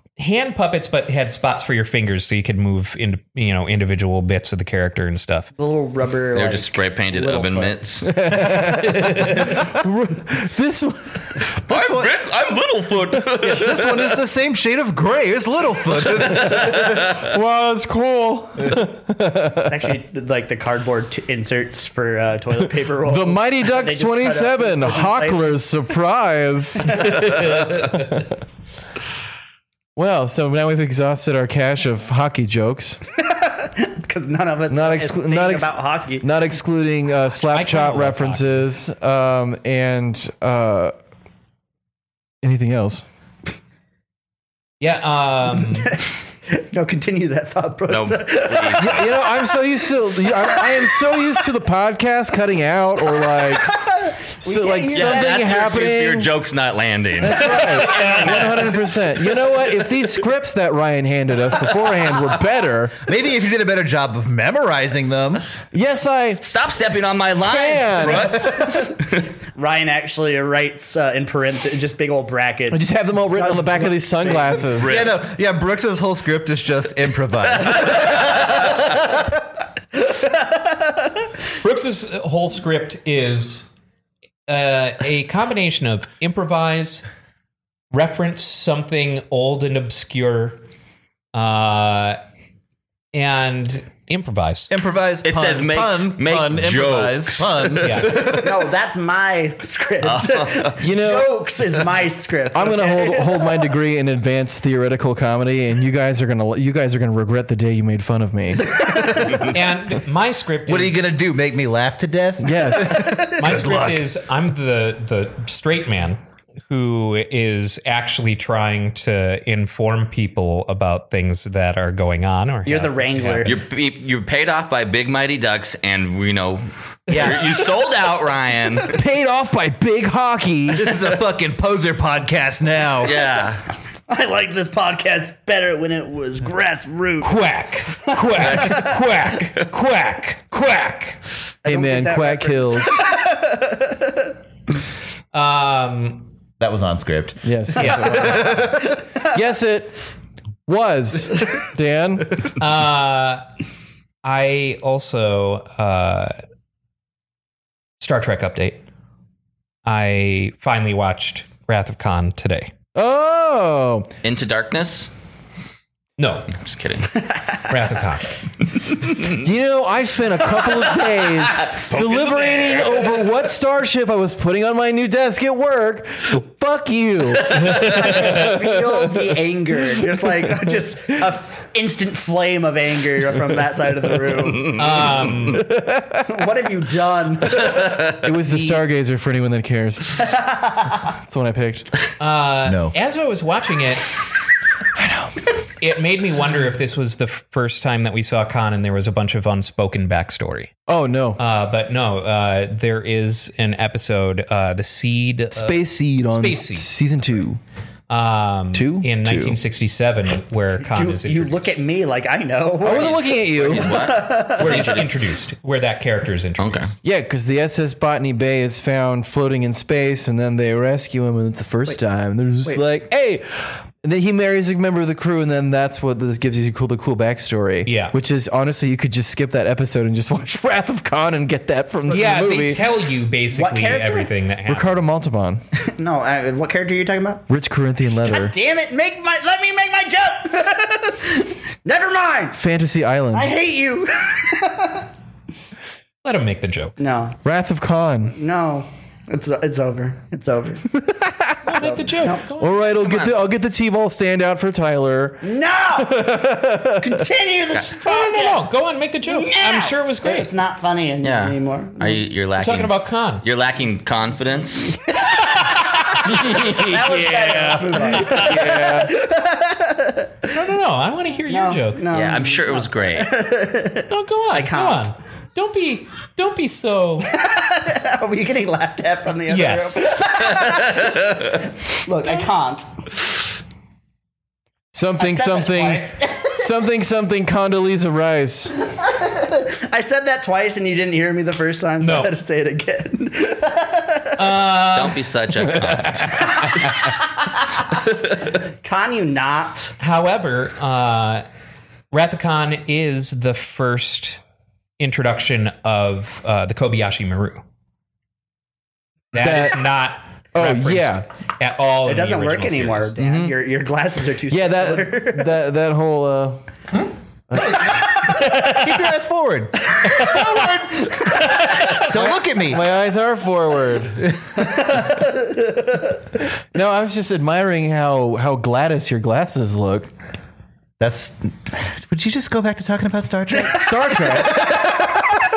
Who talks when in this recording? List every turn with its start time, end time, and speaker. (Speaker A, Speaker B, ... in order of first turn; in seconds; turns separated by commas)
Speaker A: 0.2-5.5, Speaker B: 5.5-7.8, Speaker C: 6.3-8.5, Speaker D: 8.1-11.4, Speaker A: 8.8-9.5, Speaker C: 11.7-14.2, Speaker E: 11.7-12.1, Speaker E: 13.4-17.1, Speaker C: 16.1-17.3, Speaker D: 16.5-19.9, Speaker B: 19.7-25.4, Speaker D: 23.0-27.2, Speaker D: 29.9-33.0, Speaker B: 33.1-36.2, Speaker D: 34.7-40.9, Speaker A: 37.5-38.7, Speaker D: 42.4-43.0, Speaker A: 44.8-46.0, Speaker B: 45.7-49.1, Speaker C: 47.9-48.9, Speaker D: 48.8-53.8, Speaker B: 50.5-50.9, Speaker B: 53.2-55.8, Speaker D: 54.4-56.3, Speaker C: 54.9-58.8, Speaker D: 57.2-63.0, Speaker B: 57.9-58.5, Speaker E: 63.0-65.4, Speaker D: 65.7-66.4, Speaker C: 66.4-69.2, Speaker D: 67.4-68.5, Speaker B: 68.5-69.0, Speaker B: 69.5-74.9, Speaker D: 72.7-75.0, Speaker C: 74.7-75.1, Speaker E: 74.8-79.2, Speaker C: 77.6-78.7, Speaker B: 79.9-81.3, Speaker A: 81.6-83.7, Speaker A: 84.5-87.0, Speaker A: 87.9-90.6, Speaker A: 91.3-92.2, Speaker A: 93.1-94.7, Speaker E: 94.7-98.6, Speaker C: 95.2-98.1, Speaker A: 97.8-98.3, Speaker B: 98.2-103.7, Speaker C: 100.0-100.8, Speaker D: 100.8-101.3, Speaker D: 102.5-108.8, Speaker E: 108.8-109.3, Speaker A: 109.4-111.0, Speaker E: 110.7-114.0, Speaker D: 112.4-113.3, Speaker A: 113.4-123.5, Speaker B: 122.6-123.6, Speaker C: 123.4-128.9, Speaker E: 127.1-127.5, Speaker D: 128.9-130.9, Speaker E: 130.7-133.2, Speaker C: 133.0-133.6, Speaker B: 134.1-137.4, Speaker A: 137.2-141.2, Speaker B: 138.2-138.9, Speaker C: 138.4-139.6, Speaker B: 141.6-144.3, Speaker D: 141.6-143.0, Speaker A: 145.3-146.3, Speaker E: 146.6-148.7, Speaker D: 147.4-150.0, Speaker A: 147.8-148.1, Speaker B: 147.9-149.2, Speaker D: 150.7-152.3, Speaker A: 152.6-153.4, Speaker A: 154.2-156.4, Speaker A: 158.0-158.8, Speaker A: 159.8-162.7, Speaker D: 162.9-164.1, Speaker C: 164.2-165.1, Speaker A: 166.2-166.5, Speaker C: 166.5-167.2, Speaker A: 167.7-168.4, Speaker D: 169.3-180.0, Speaker C: 172.3-172.7, Speaker B: 177.5-185.1, Speaker A: 184.7-185.6, Speaker D: 185.5-186.5, Speaker B: 186.2-188.2, Speaker D: 188.1-190.3, Speaker A: 188.5-188.8, Speaker B: 190.2-191.0, Speaker D: 190.8-191.9, Speaker A: 192.2-194.1, Speaker E: 192.7-192.9, Speaker D: 194.9-195.4, Speaker A: 195.8-200.7, Speaker D: 200.9-201.4, Speaker A: 201.4-206.9, Speaker D: 205.5-207.6, Speaker A: 208.1-211.7, Speaker D: 208.7-209.6, Speaker B: 210.8-215.1, Speaker D: 212.8-214.0, Speaker C: 212.9-215.1, Speaker A: 214.6-216.9, Speaker C: 216.6-216.9, Speaker D: 217.0-232.8, Speaker A: 227.8-228.1, Speaker A: 232.1-235.0, Speaker B: 233.5-234.3, Speaker D: 234.7-235.6, Speaker B: 235.8-237.4, Speaker D: 237.5-238.5, Speaker B: 238.1-242.6, Speaker D: 242.5-243.5, Speaker B: 243.3-245.1, Speaker A: 246.2-246.9, Speaker B: 247.0-247.4, Speaker D: 247.4-248.4, Speaker B: 248.3-250.9, Speaker D: 250.9-251.6, Speaker A: 251.6-252.9, Speaker B: 251.8-252.5, Speaker D: 252.6-257.2, Speaker C: 253.0-253.4, Speaker B: 255.4-256.4, Speaker B: 256.9-258.6, Speaker A: 258.0-260.5, Speaker B: 259.2-262.2, Speaker C: 261.2-264.9, Speaker A: 262.6-263.4, Speaker B: 264.9-270.5, Speaker A: 265.3-268.7, Speaker D: 266.1-266.9, Speaker D: 268.1-269.1, Speaker A: 270.5-272.1, Speaker B: 271.5-275.1, Speaker C: 272.1-273.4, Speaker A: 274.1-277.3, Speaker B: 277.2-282.9, Speaker A: 279.5-280.1, Speaker D: 284.9-288.7, Speaker B: 285.2-286.7, Speaker B: 288.9-294.4, Speaker A: 292.0-292.3, Speaker A: 294.4-295.2, Speaker C: 294.9-296.9, Speaker B: 296.3-297.6, Speaker B: 298.5-299.9, Speaker A: 300.0-301.4, Speaker A: 302.1-304.4, Speaker A: 305.0-307.6, Speaker A: 309.3-313.1, Speaker D: 309.3-309.8, Speaker D: 310.5-311.2, Speaker B: 312.0-315.5, Speaker D: 313.2-313.5, Speaker D: 314.5-316.6, Speaker D: 317.5-318.0, Speaker A: 318.3-318.9, Speaker E: 318.4-319.9, Speaker B: 319.9-321.8, Speaker A: 320.2-320.8, Speaker A: 321.6-321.9, Speaker E: 321.9-322.8, Speaker D: 322.1-324.3, Speaker B: 324.6-326.2, Speaker D: 326.7-330.1, Speaker E: 331.0-335.2, Speaker D: 333.7-334.7